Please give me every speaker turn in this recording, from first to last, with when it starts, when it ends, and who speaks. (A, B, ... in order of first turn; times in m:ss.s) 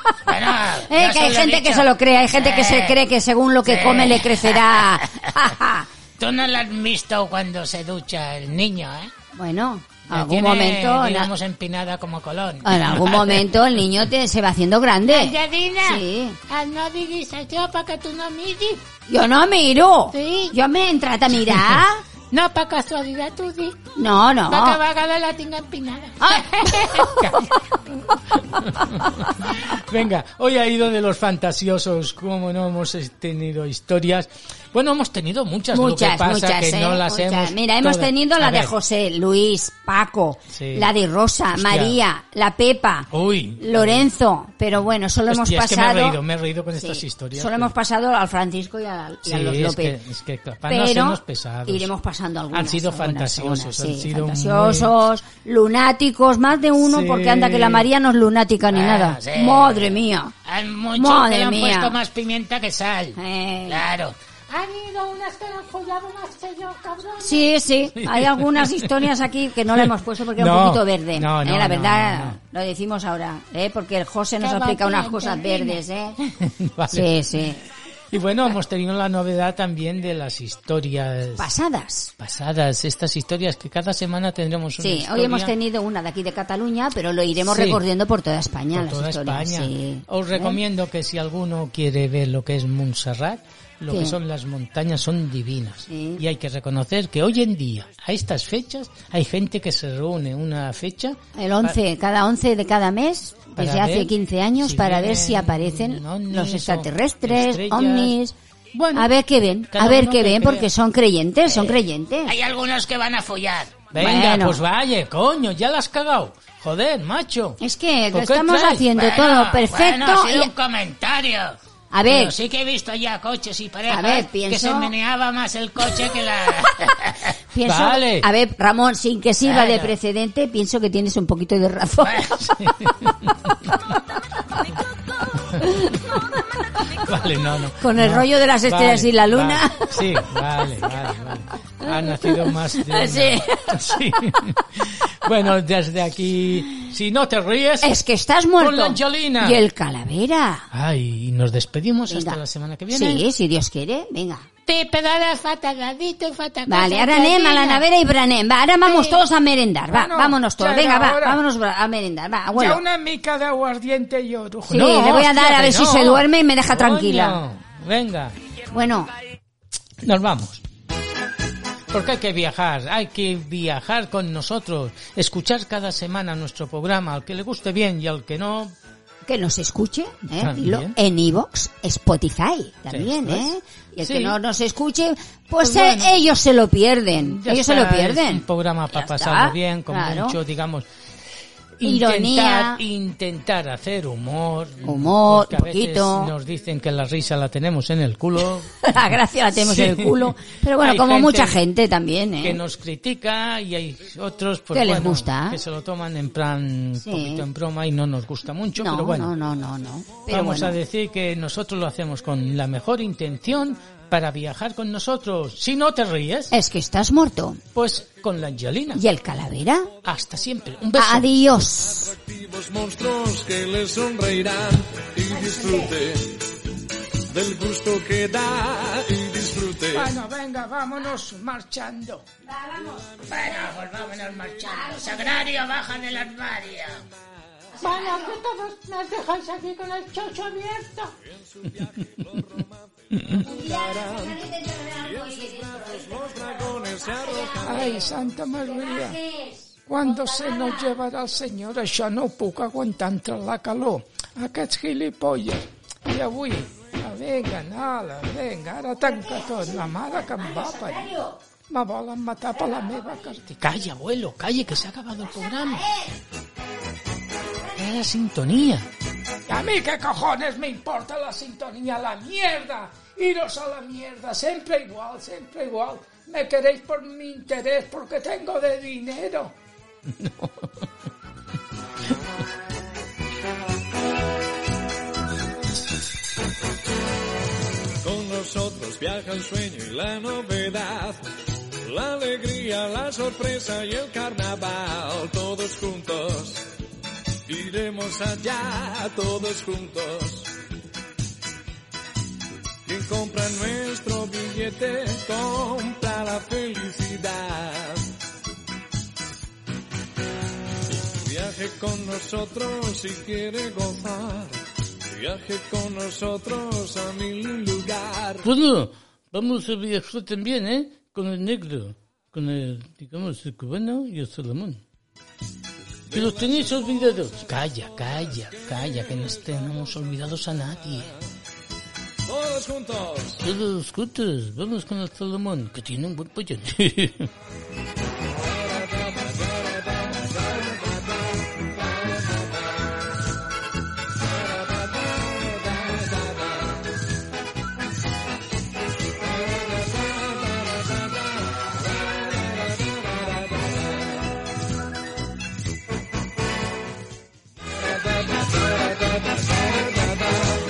0:00.3-0:03.0 A
0:00.9-0:05.9 B
0:03.6-0:05.0 A
0:06.2-0:09.1 A
0:09.4-0:11.3 B
0:10.1-0:13.4 A
0:12.6-0:16.4 B
0:15.1-0:18.8 C
0:19.1-0:22.0 B
0:20.1-0:20.6 C
0:21.5-0:21.8 D
0:22.3-0:23.8 C
0:24.0-0:24.8 B
0:24.5-0:27.2 C
0:26.2-0:27.4 B
0:27.2-0:27.5 D
0:28.4-0:38.8 D
0:35.7-0:46.2 B
0:40.5-0:40.9 D
0:41.5-0:42.0 D
0:43.1-0:44.1 D
0:45.3-0:47.7 D
0:46.8-0:50.0 B
0:49.2-0:51.9 D
0:50.7-1:00.4 B
0:52.5-0:54.9 D
0:56.8-0:57.9 D
0:58.7-1:03.2 A
1:01.0-1:02.0 B
1:03.2-1:03.9 B
1:03.7-1:04.2 A
1:04.5-1:07.5 C
1:07.2-1:16.2 B
1:08.0-1:09.1 D
1:09.7-1:12.4 D
1:14.4-1:15.8 C
1:16.4-1:17.4 D
1:16.9-1:17.6 B
1:18.1-1:21.5 D
1:21.4-1:22.1 B
1:22.2-1:25.5 D
1:24.8-1:30.6 B
1:27.4-1:27.8 D
1:28.7-1:41.8 D
1:33.9-1:34.2 B
1:35.9-1:36.2 B
1:41.4-1:48.4 B
1:43.6-1:48.2 D
1:48.7-1:49.1 D
1:48.9-1:52.4 B
1:49.7-1:50.7 D
1:51.5-1:53.9 A
1:53.9-1:57.6 D
1:54.0-1:54.6 B
1:57.6-2:00.5 B
1:58.1-1:58.9 D
1:58.9-2:07.3 A
2:01.9-2:02.4 B
2:03.9-2:04.9 B
2:07.5-2:12.2 B
2:07.6-2:08.3 D
2:09.4-2:09.9 A
2:12.1-2:13.8 D
2:15.6-2:16.1 B
2:16.9-2:28.0 D
2:17.8-2:20.0 B
2:21.9-2:24.0 B
2:27.8-2:30.7 B
2:28.6-2:29.6 D
2:30.7-2:33.3 D
2:32.1-2:32.4 B
2:32.9-2:34.5 B
2:34.7-2:37.8 C
2:36.7-2:42.8 B
2:38.8-2:39.2 C
2:39.9-2:41.4 E
2:42.5-2:44.8 E
2:44.7-2:47.4 B
2:44.7-2:48.4 D
2:48.7-2:49.1 B
2:50.0-2:50.6 D
2:51.9-2:58.8 D
2:59.3-3:10.4 B
3:00.3-3:01.0 D
3:02.9-3:04.4 D
3:05.6-3:06.2 D
3:07.2-3:10.9 D
3:11.8-3:21.6 D
3:11.8-3:12.8 B
3:14.8-3:16.3 B
3:18.8-3:22.6 B
3:22.4-3:29.4 D
3:24.7-3:25.6 B
3:27.0-3:27.4 B
3:28.8-3:30.8 B
3:30.3-3:36.5 D
3:36.5-3:37.6 B
3:37.8-3:39.0 D
3:39.0-3:39.9 B
3:40.0-3:41.3 D
3:41.0-3:42.2 B
3:42.0-3:46.4 F
3:45.3-3:46.0 B
3:47.3-3:50.1 F
3:49.9-3:52.2 E
3:52.5-3:53.7 B
3:53.2-3:57.1 A
3:54.6-3:55.4 B
3:57.7-3:58.4 B
3:57.8-4:01.1 C
4:01.2-4:08.4 F
4:03.1-4:03.4 D
4:03.3-4:11.0 B
4:07.6-4:09.2 E
4:09.9-4:23.6 E
4:19.1-4:21.4 B
4:22.7-4:23.4 B
4:23.6-4:25.9 D
4:25.5-4:26.1 B
4:27.8-4:28.9 D
4:29.5-4:39.5 E
4:40.1-4:40.7 D
4:48.0-4:51.2 F
4:51.8-4:56.7 F
4:57.5-5:00.5 F
5:02.8-5:08.1 F
5:11.2-5:18.5 F
5:18.4-5:24.8 D
5:26.1-5:29.5 F
5:26.1-5:31.1 D
5:32.3-5:33.4 F
5:33.4-5:37.3 D
5:38.4-5:41.1 F
5:45.8-5:46.3 F
5:59.3-6:00.2 F